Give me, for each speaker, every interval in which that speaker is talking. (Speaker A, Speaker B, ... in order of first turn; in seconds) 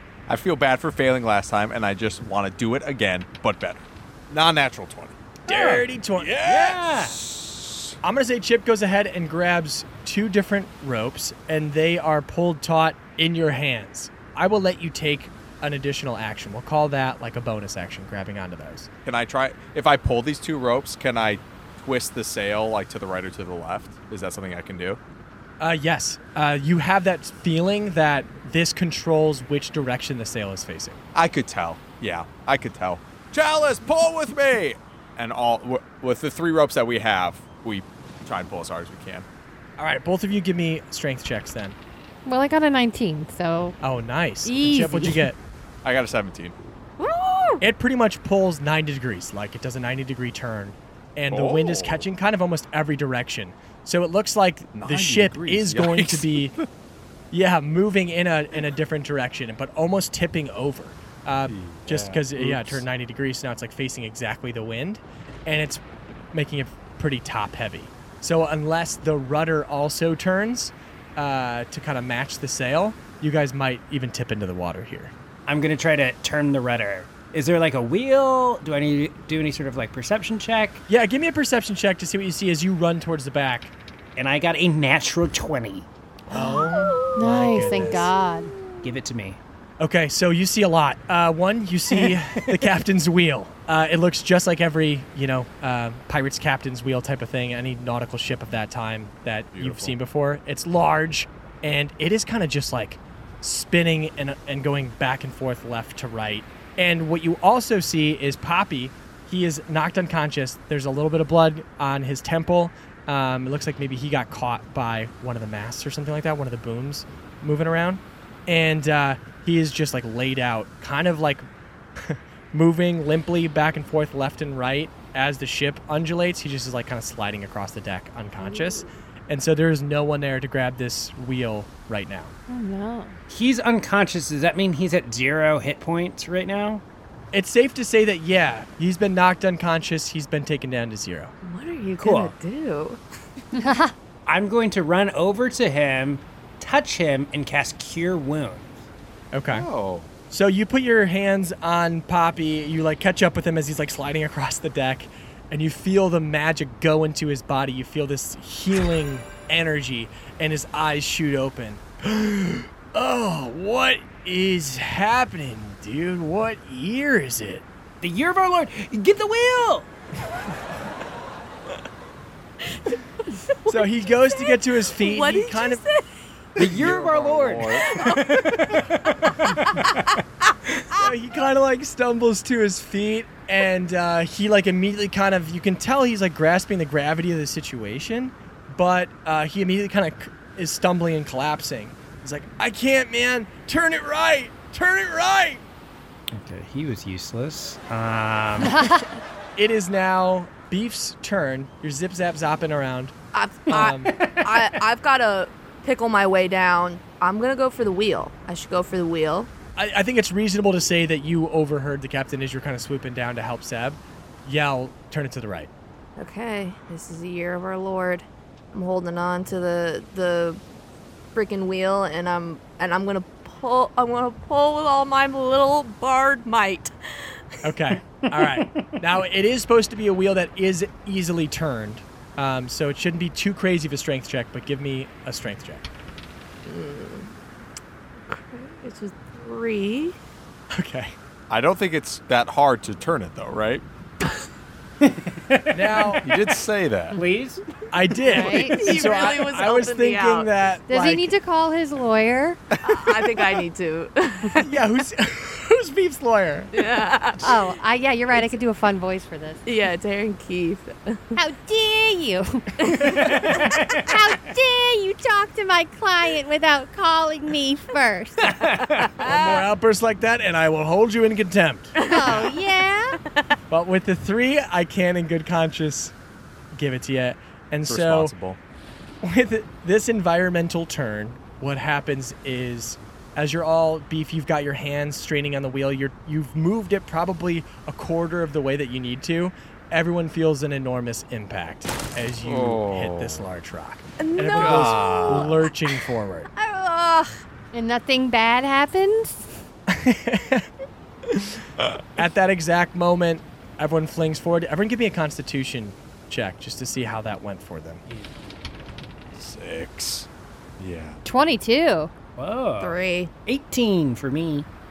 Speaker A: 0.3-5.2, 6.2-7.9, 19.0-25.0, 31.1-39.2, 45.8-46.5, 51.3-52.0, 54.7-56.6, 61.5-62.8, 99.5-100.0, 149.5-150.1, 176.6-178.0, 241.5-243.8, 246.2-247.2, 277.9-278.6, 292.4-293.4, 294.5-295.6, 309.3-310.3, 310.8-311.2
Speaker B: 5.5-7.2, 75.5-80.8, 84.2-85.9, 87.4-88.0, 88.8-89.4, 91.9-92.7, 133.3-136.8, 142.0-142.3, 144.2-148.8, 168.0-169.9, 176.6-179.8, 196.3-198.9, 203.8-204.7, 228.1-229.0, 245.0-246.2, 247.1-247.6, 263.0-264.1, 268.4-269.1, 312.4-314.7
Speaker C: 5.5-6.5, 8.0-18.9, 25.6-31.0, 39.8-41.8, 43.8-45.4, 47.6-56.5, 57.3-65.8, 66.3-75.1, 80.9-83.7, 86.3-88.1, 89.8-121.5, 122.0-132.3, 137.3-141.3, 149.3-149.7, 150.3-167.6, 173.7-175.8, 180.9-195.6, 199.6-203.1, 203.7-204.1, 209.8-215.7, 227.6-235.8, 240.7-241.1, 245.7-246.2, 247.9-251.3, 254.6-256.7, 269.2-271.9, 273.7-276.1, 276.7-278.3, 279.2-296.5, 299.9-300.7, 301.3-301.6, 302.2-308.0
Speaker D: 42.2-43.7, 44.5-45.2, 87.1-88.5, 132.5-133.2, 143.6-143.9, 198.6-199.0, 248.2-248.9, 250.9-252.6, 257.4-259.6, 261.4-268.5, 272.1-273.2, 297.7-299.5, 311.2-312.1
Speaker E: 47.0-47.6, 86.3-88.8, 141.4-143.0, 173.5-176.1, 177.8-178.8, 179.7-179.9, 203.3-209.5, 216.2-220.6, 221.3-227.5, 236.6-237.3, 238.2-240.2, 248.5-250.5, 252.8-254.7, 256.7-257.7, 259.6-261.4, 262.8-263.6, 268.8-269.6, 272.0-272.4, 294.2-296.0, 296.5-297.4, 312.8-313.3